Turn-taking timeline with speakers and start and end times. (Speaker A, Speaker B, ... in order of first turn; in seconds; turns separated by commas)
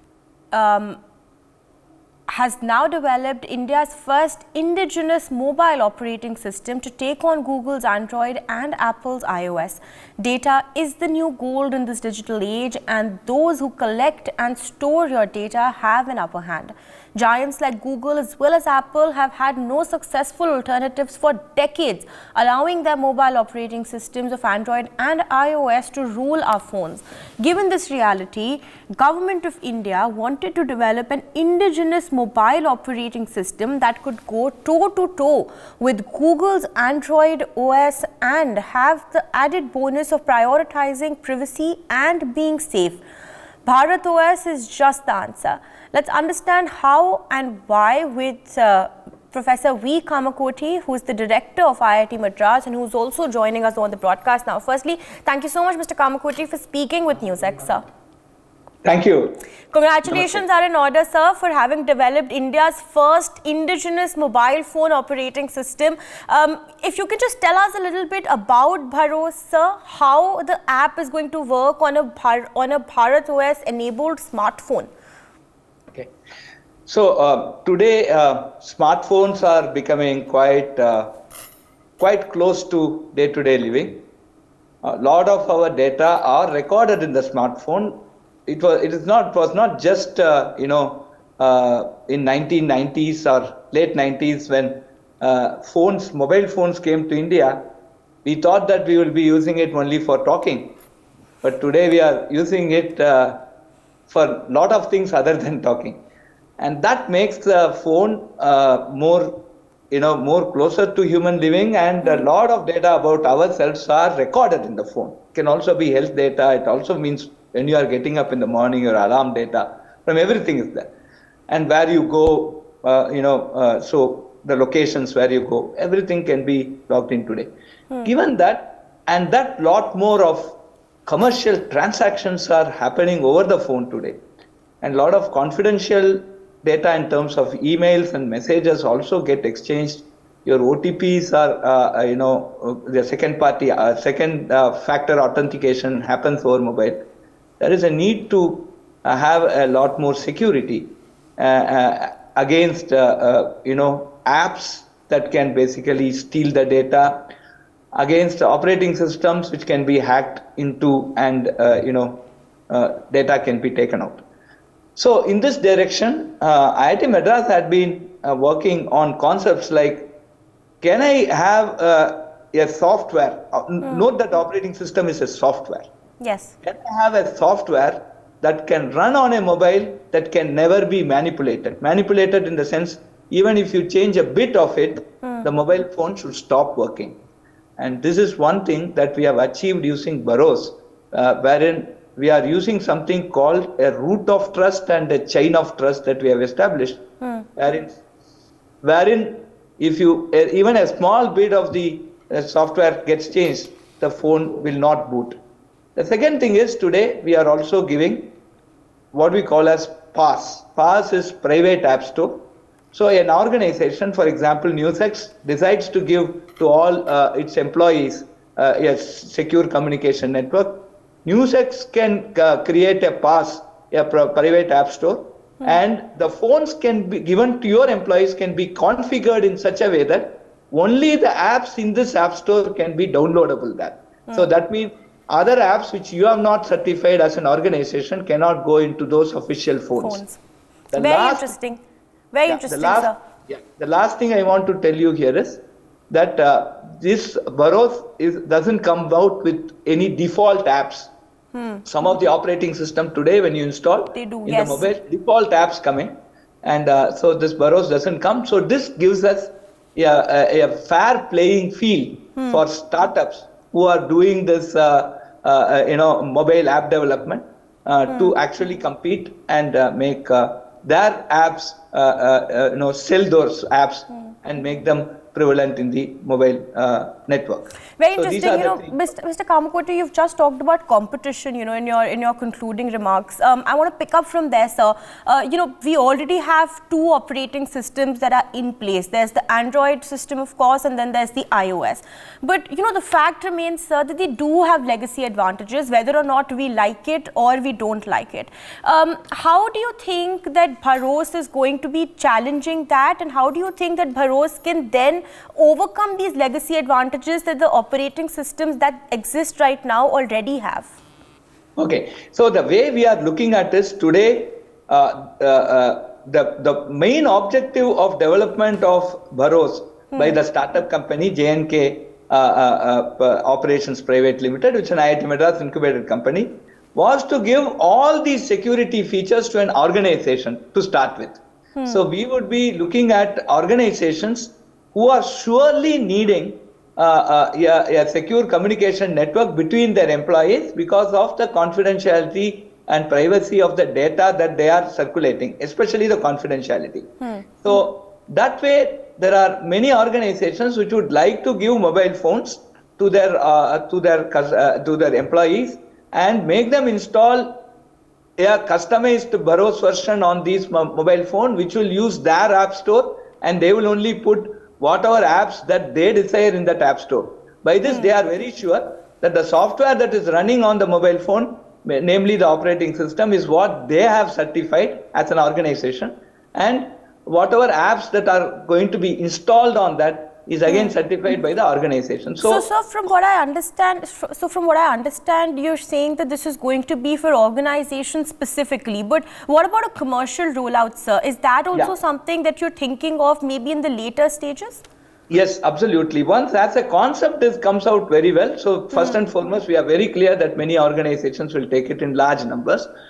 Speaker A: 0.5-1.0, Speaker A: 2.3-43.0, Speaker A: 43.6-57.8, Speaker B: 58.8-59.4, Speaker A: 59.7-74.9, Speaker B: 60.0-60.4, Speaker B: 76.9-81.1, Speaker B: 82.0-84.0, Speaker B: 84.8-97.7, Speaker B: 98.2-100.8, Speaker B: 101.4-103.4, Speaker B: 104.1-106.0, Speaker B: 106.6-120.9, Speaker A: 112.0-112.3, Speaker B: 121.5-127.5, Speaker B: 128.0-134.2, Speaker B: 134.8-147.1, Speaker B: 147.6-157.3, Speaker B: 157.9-164.2, Speaker B: 165.0-170.1, Speaker B: 170.8-175.9, Speaker A: 176.2-176.6, Speaker B: 176.6-187.2, Speaker B: 187.8-197.0, Speaker B: 197.6-198.0, Speaker B: 198.8-205.4, Speaker B: 206.0-208.3, Speaker B: 209.1-240.2, Speaker A: 240.0-240.4, Speaker B: 240.9-241.5, Speaker A: 240.9-241.8, Speaker A: 242.3-243.2, Speaker B: 242.5-251.1, Speaker A: 251.5-251.9, Speaker B: 251.9-279.0, Speaker A: 254.1-254.9, Speaker A: 262.4-262.6, Speaker A: 268.1-268.4, Speaker A: 278.0-310.9, Speaker B: 311.8-357.6, Speaker A: 331.8-332.0, Speaker B: 358.4-382.7, Speaker A: 367.9-368.1, Speaker A: 380.7-380.9, Speaker A: 382.4-394.9, Speaker B: 395.3-402.9, Speaker A: 398.9-399.2